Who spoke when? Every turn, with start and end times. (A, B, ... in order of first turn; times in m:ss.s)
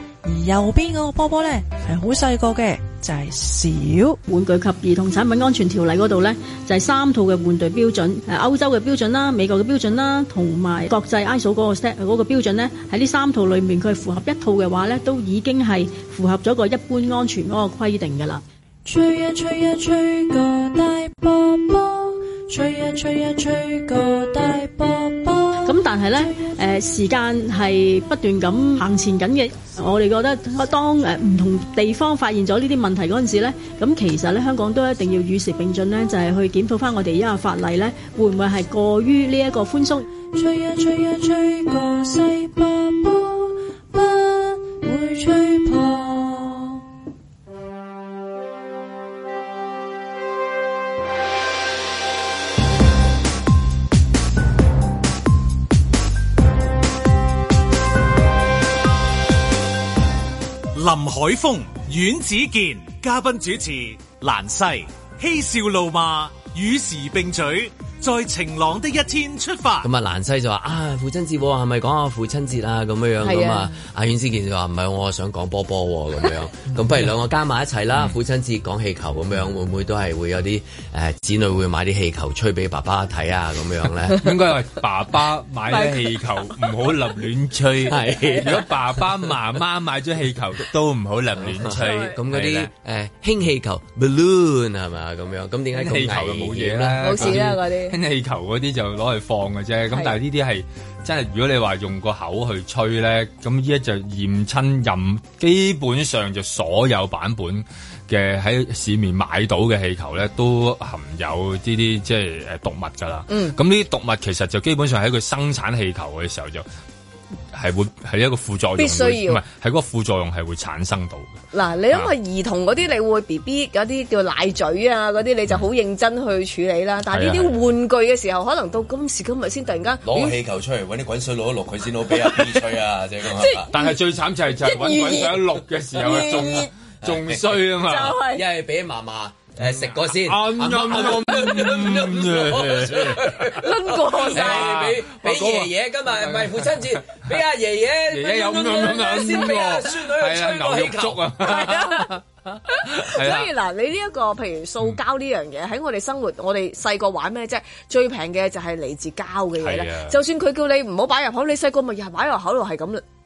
0:00.2-0:04.2 A
0:04.3-0:18.4 B
0:18.8-0:26.6 A
0:25.6-0:40.1 B
0:40.2-0:46.8 A
1:00.7-1:09.9 C
1:09.8-1:24.3 D
1:13.2-1:13.7 E
1:24.2-1:32.7 F
1:25.7-1:26.6 E
1:27.9-1:29.0 D
1:28.1-1:28.5 E
1:31.4-1:37.4 D
1:31.8-1:32.2 E
1:35.7-1:56.6 F
1:37.0-1:38.0 E
1:53.3-1:53.6 E
1:57.5-2:01.4 F
1:58.8-1:59.4 E
2:01.5-2:10.4 E
2:07.1-2:07.6 F
2:10.0-2:13.7 D
2:12.2-2:12.7 E
2:13.4-2:13.9 E
2:13.7-2:18.2 F
2:14.6-2:15.4 E
2:16.0-2:16.7 E
2:17.0-2:17.7 D
2:17.8-2:18.4 E
2:18.2-2:31.3 D
2:19.6-2:23.6 F
2:23.6-2:24.9 E
2:24.2-2:27.2 F
2:28.1-2:32.2 F
2:29.0-2:29.5 E
2:31.4-2:43.0 E
2:32.8-2:33.5 F
2:39.6-2:40.2 F